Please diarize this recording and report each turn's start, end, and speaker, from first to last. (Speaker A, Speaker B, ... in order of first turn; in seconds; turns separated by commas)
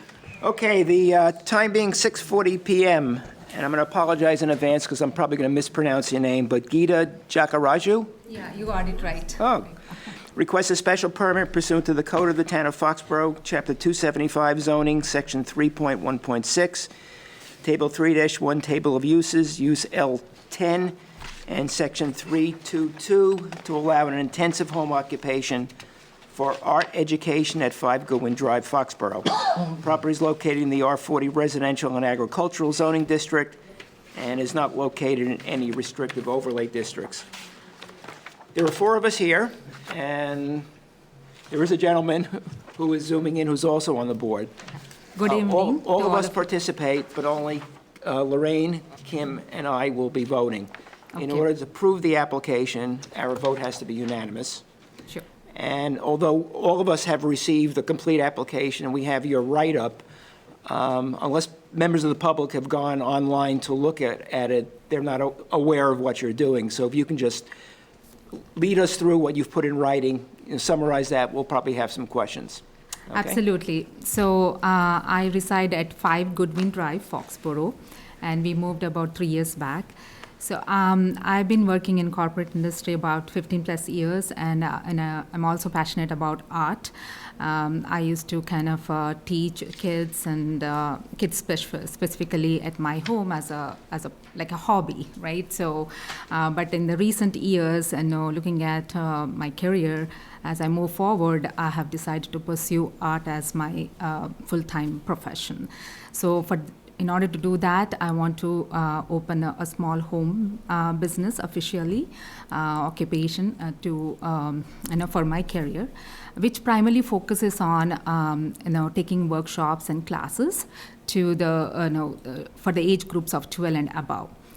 Speaker A: 0.4-8.1, Speaker B: 8.3-9.5, Speaker A: 9.4-9.8, Speaker A: 10.3-16.9, Speaker A: 17.6-21.0, Speaker A: 21.5-25.7, Speaker A: 26.3-33.6, Speaker A: 34.1-37.2, Speaker A: 38.5-40.7, Speaker A: 41.5-44.5, Speaker B: 45.2-46.4, Speaker A: 45.2-54.6, Speaker B: 51.1-51.4, Speaker A: 55.5-60.0, Speaker A: 60.7-67.5, Speaker A: 68.5-73.4, Speaker B: 73.1-124.3